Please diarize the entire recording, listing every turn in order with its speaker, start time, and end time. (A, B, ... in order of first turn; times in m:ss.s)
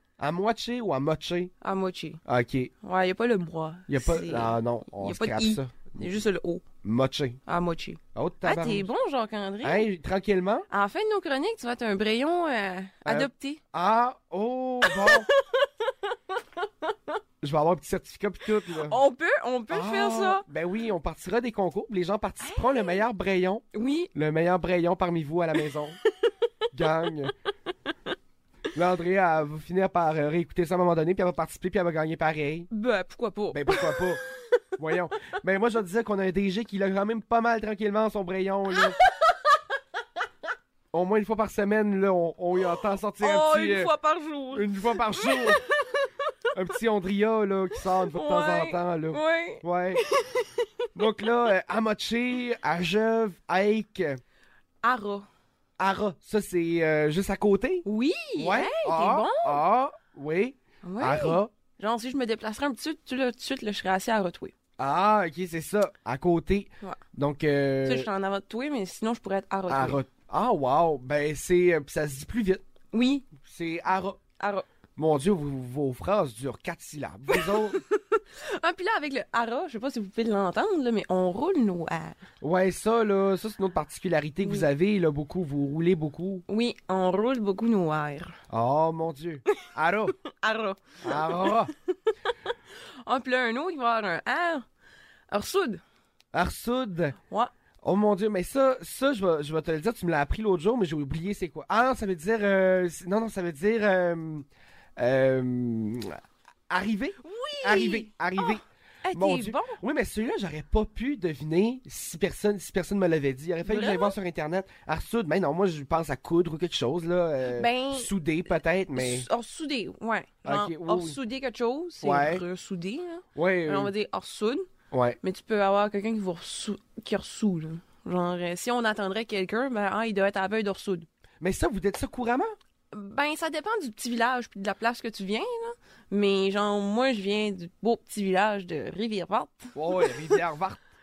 0:00.2-0:01.5 A
0:01.6-0:02.2 B
0:02.2-0:02.7 A
0:02.8-0:06.6 B
0:03.9-0:05.9 A
0:06.8-0:07.4 A
0:07.5-0:09.9 B
0:08.1-0:08.9 A
0:09.6-0:10.7 A
0:10.7-0:13.6 B
0:13.0-0:15.3 A
0:14.8-0:15.7 B
0:16.3-0:16.9 B
0:17.4-0:19.0 A
0:18.8-0:20.4 B
0:19.7-0:26.0 A
0:22.4-0:23.0 B
0:23.7-0:24.1 B
0:26.7-0:27.3 A
0:28.7-0:32.7 A
0:32.7-0:33.9 B
0:33.5-0:34.2 A
0:34.8-0:39.0 A
0:40.9-0:43.9 A
0:43.2-0:46.2 B
0:44.5-0:45.6 A
0:46.5-0:50.0 A
0:47.9-0:51.3 B
0:50.9-0:54.2 A
0:54.8-0:55.2 B
0:55.8-0:57.8 A
0:57.8-0:59.6 B
0:58.4-1:01.5 A
1:00.8-1:04.5 B
1:04.8-1:08.1 A
1:07.8-1:10.0 B
1:09.7-1:12.6 A
1:12.9-1:13.3 B
1:13.4-1:14.2 A
1:14.4-1:14.6 B
1:15.0-1:17.8 A
1:17.3-1:22.2 B
1:22.4-1:26.4 A
1:24.4-1:24.7 B
1:26.5-1:28.3 B
1:28.5-1:30.2 A
1:30.2-1:34.6 B
1:31.0-1:31.7 A
1:35.3-1:35.8 B
1:36.3-1:37.2 A
1:37.8-1:44.4 A
1:45.0-1:59.3 A
1:47.2-1:49.8 B
1:53.6-1:54.2 B
1:57.4-1:58.1 B
1:58.9-2:04.7 B
2:00.4-2:01.2 A
2:02.0-2:02.4 A
2:03.3-2:03.9 A
2:04.9-2:05.2 A
2:05.2-2:11.1 B
2:11.4-2:12.5 A
2:12.9-2:20.4 B
2:19.7-2:20.8 A